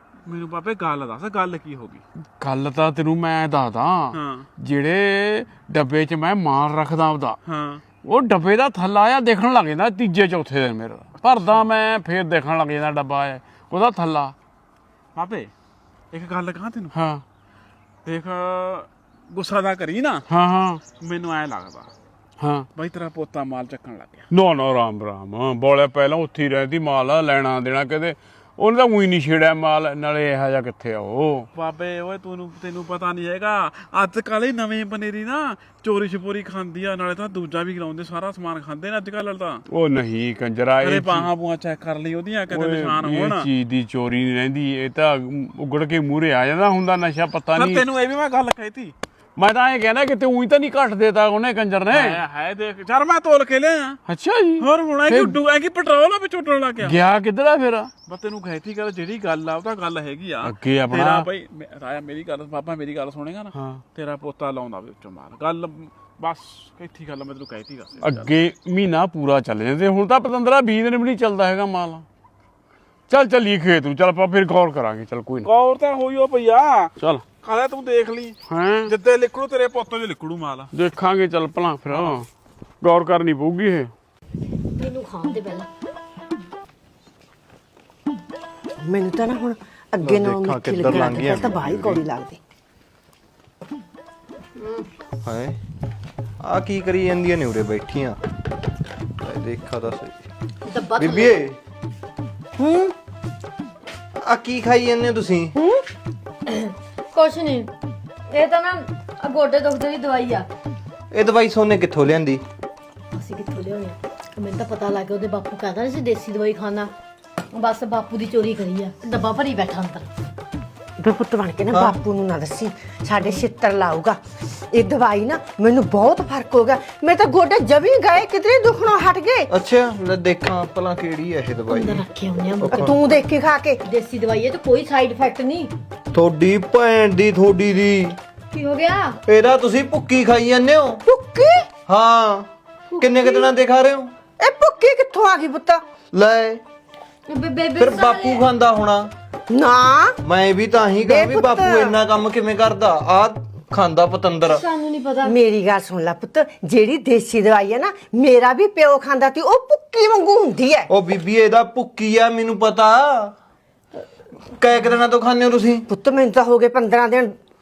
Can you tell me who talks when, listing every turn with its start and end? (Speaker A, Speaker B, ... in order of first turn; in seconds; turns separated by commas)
Speaker A: 0.2-2.0, Speaker B: 2.4-7.4, Speaker A: 4.1-4.5, Speaker A: 7.5-7.8, Speaker B: 8.0-14.3, Speaker A: 11.3-11.7, Speaker A: 15.2-15.5, Speaker A: 16.1-17.0, Speaker B: 16.9-17.2, Speaker A: 18.1-20.2, Speaker B: 20.3-20.8, Speaker A: 21.0-21.9, Speaker B: 22.4-22.7, Speaker A: 22.8-24.3, Speaker B: 24.3-31.5, Speaker A: 31.6-39.6, Speaker B: 39.7-41.3, Speaker A: 40.8-43.5, Speaker B: 42.5-47.8, Speaker A: 47.5-48.9, Speaker B: 49.4-52.2, Speaker A: 51.9-54.0, Speaker B: 54.1-55.4, Speaker A: 54.6-57.0, Speaker B: 56.8-57.9, Speaker A: 58.1-68.3, Speaker B: 60.4-61.3, Speaker B: 63.5-63.8, Speaker B: 68.0-72.0, Speaker B: 73.1-75.5, Speaker A: 75.4-78.4, Speaker B: 77.0-77.3, Speaker B: 78.5-78.9, Speaker A: 78.9-80.7, Speaker B: 80.7-82.3, Speaker B: 82.8-83.9, Speaker C: 84.7-85.7, Speaker D: 88.8-92.4, Speaker E: 90.0-91.8, Speaker C: 94.6-94.9, Speaker E: 95.2-95.6, Speaker E: 96.4-98.2, Speaker E: 99.2-100.2, Speaker C: 100.7-101.4, Speaker E: 101.0-101.6, Speaker D: 102.6-103.0, Speaker E: 104.2-105.5, Speaker D: 105.5-105.8, Speaker C: 106.5-107.7, Speaker C: 108.3-110.5, Speaker E: 111.1-112.4, Speaker C: 113.1-116.9, Speaker C: 117.5-120.1, Speaker D: 121.0-129.5, Speaker E: 121.7-122.0, Speaker E: 129.5-132.1, Speaker C: 131.7-133.0, Speaker E: 132.6-133.0, Speaker D: 132.7-133.8, Speaker C: 133.8-135.7, Speaker E: 136.1-138.2, Speaker C: 138.5-139.2, Speaker E: 139.3-141.0, Speaker D: 141.1-141.7, Speaker E: 141.9-144.1, Speaker D: 142.9-143.5, Speaker D: 144.4-145.8, Speaker E: 146.1-146.6, Speaker C: 147.3-148.4, Speaker E: 147.8-149.1, Speaker D: 149.5-150.2, Speaker E: 150.2-154.6, Speaker D: 151.0-152.0, Speaker C: 154.5-155.3, Speaker D: 155.2-160.9, Speaker E: 160.9-163.3, Speaker E: 164.6-165.9, Speaker D: 165.9-167.4